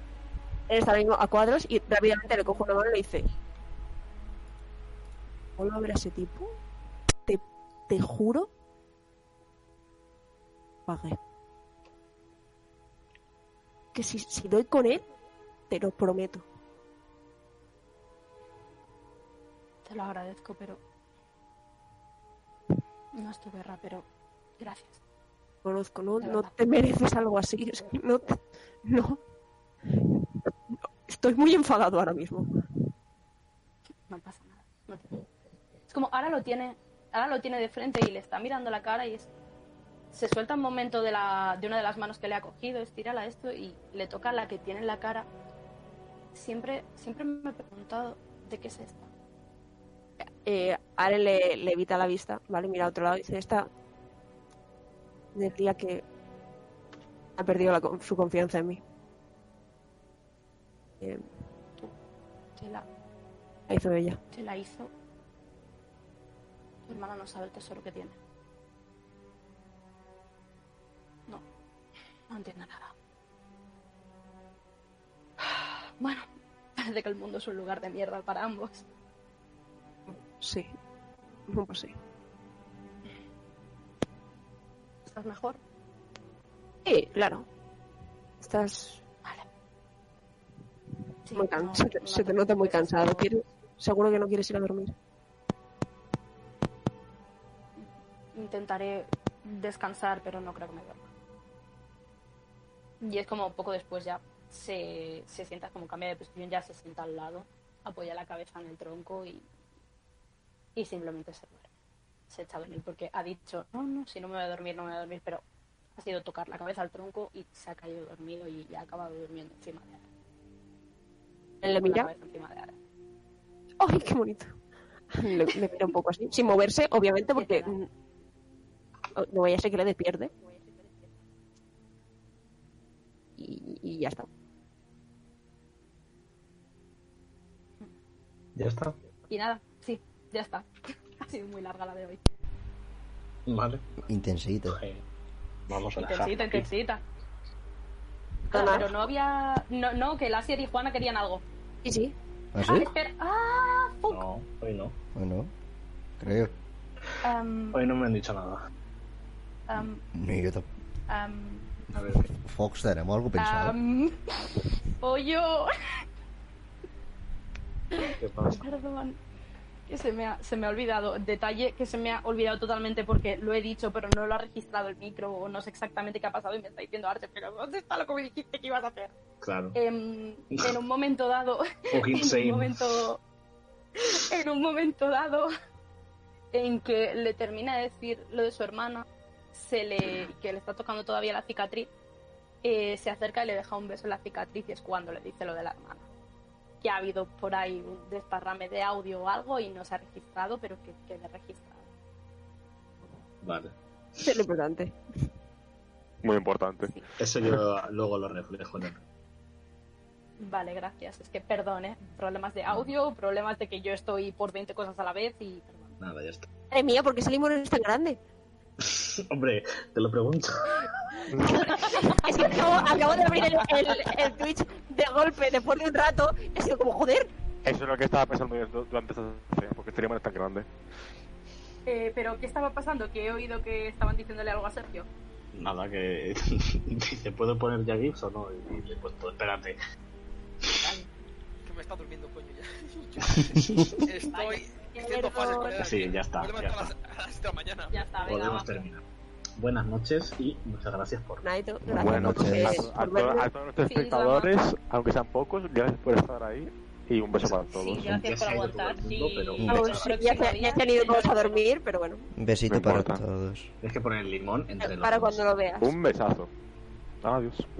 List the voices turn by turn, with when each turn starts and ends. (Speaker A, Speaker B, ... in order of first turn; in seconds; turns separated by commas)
Speaker A: 0.7-3.2, Speaker A: 5.6-6.5, Speaker A: 7.2-8.5, Speaker A: 10.8-11.2, Speaker A: 13.9-15.0, Speaker A: 15.7-16.4, Speaker B: 19.8-20.8, Speaker B: 23.1-24.1, Speaker B: 24.6-25.0, Speaker A: 25.6-29.2, Speaker B: 26.2-26.6, Speaker A: 30.7-32.5, Speaker B: 34.1-35.2, Speaker B: 35.9-39.3, Speaker B: 40.1-45.3, Speaker B: 46.3-49.1, Speaker A: 50.4-53.7, Speaker A: 55.3-56.0, Speaker A: 57.4-58.8, Speaker A: 61.0-61.2, Speaker B: 62.6-62.9, Speaker A: 63.7-64.2, Speaker B: 64.3-64.9, Speaker B: 66.8-68.2, Speaker B: 72.3-72.9, Speaker B: 75.4-78.8, Speaker A: 80.4-80.7, Speaker A: 81.5-82.0, Speaker B: 85.0-85.6, Speaker A: 86.8-87.5, Speaker A: 88.4-89.0, Speaker B: 91.2-93.3, Speaker A: 91.3-94.9, Speaker B: 97.8-101.1, Speaker B: 103.0-109.5, Speaker B: 110.8-111.7, Speaker B: 112.3-115.4, Speaker B: 116.0-120.0, Speaker A: 121.6-122.1, Speaker B: 121.7-122.7, Speaker A: 123.8-124.5, Speaker A: 125.1-127.9, Speaker B: 127.3-127.7, Speaker A: 129.2-130.3, Speaker B: 130.5-131.0, Speaker A: 133.4-134.3, Speaker C: 138.6-138.9, Speaker B: 139.3-140.7, Speaker B: 141.2-142.2, Speaker C: 143.5-143.8, Speaker D: 144.1-144.8, Speaker C: 144.7-145.0, Speaker C: 145.7-146.7, Speaker B: 145.9-147.0, Speaker A: 148.5-149.0, Speaker B: 148.5-151.4, Speaker A: 151.8-152.1, Speaker D: 152.5-152.9, Speaker B: 152.6-154.2, Speaker C: 154.1-155.0, Speaker D: 155.1-155.5, Speaker D: 156.2-156.5, Speaker B: 157.2-157.8, Speaker C: 157.7-158.6, Speaker B: 159.7-160.0, Speaker D: 160.1-160.7, Speaker B: 161.1-161.7, Speaker C: 161.9-162.3, Speaker D: 162.4-163.8, Speaker B: 163.4-166.0, Speaker B: 168.0-169.2, Speaker C: 168.2-168.7, Speaker B: 169.9-179.1, Speaker C: 179.4-179.8, Speaker B: 179.7-183.2, Speaker C: 181.9-183.0, Speaker B: 183.9-185.5, Speaker B: 186.5-191.9, Speaker B: 192.6-196.0, Speaker B: 196.8-201.9, Speaker C: 203.4-204.3, Speaker A: 204.2-204.9, Speaker E: 206.2-207.6, Speaker C: 207.2-209.0, Speaker B: 210.4-215.9, Speaker C: 216.0-216.5, Speaker A: 216.7-218.2, Speaker C: 218.8-221.2, Speaker E: 221.3-221.7, Speaker B: 221.7-222.5, Speaker A: 222.2-227.3, Speaker B: 223.6-223.9, Speaker E: 227.6-230.7, Speaker B: 231.8-235.1, Speaker C: 235.5-239.8, Speaker F: 241.6-248.3, Speaker C: 243.2-244.0, Speaker B: 244.2-244.8, Speaker A: 245.0-245.8, Speaker C: 245.8-246.9, Speaker B: 247.9-248.8, Speaker C: 248.2-249.0, Speaker C: 249.6-251.4, Speaker A: 251.4-253.5, Speaker D: 251.8-252.8, Speaker E: 251.9-258.1, Speaker B: 253.8-254.5, Speaker C: 257.4-260.1, Speaker B: 257.6-261.6, Speaker A: 259.6-262.3, Speaker D: 262.4-263.7, Speaker E: 262.7-263.2, Speaker C: 263.8-265.5, Speaker A: 264.8-265.9, Speaker E: 265.8-266.5, Speaker E: 267.2-267.6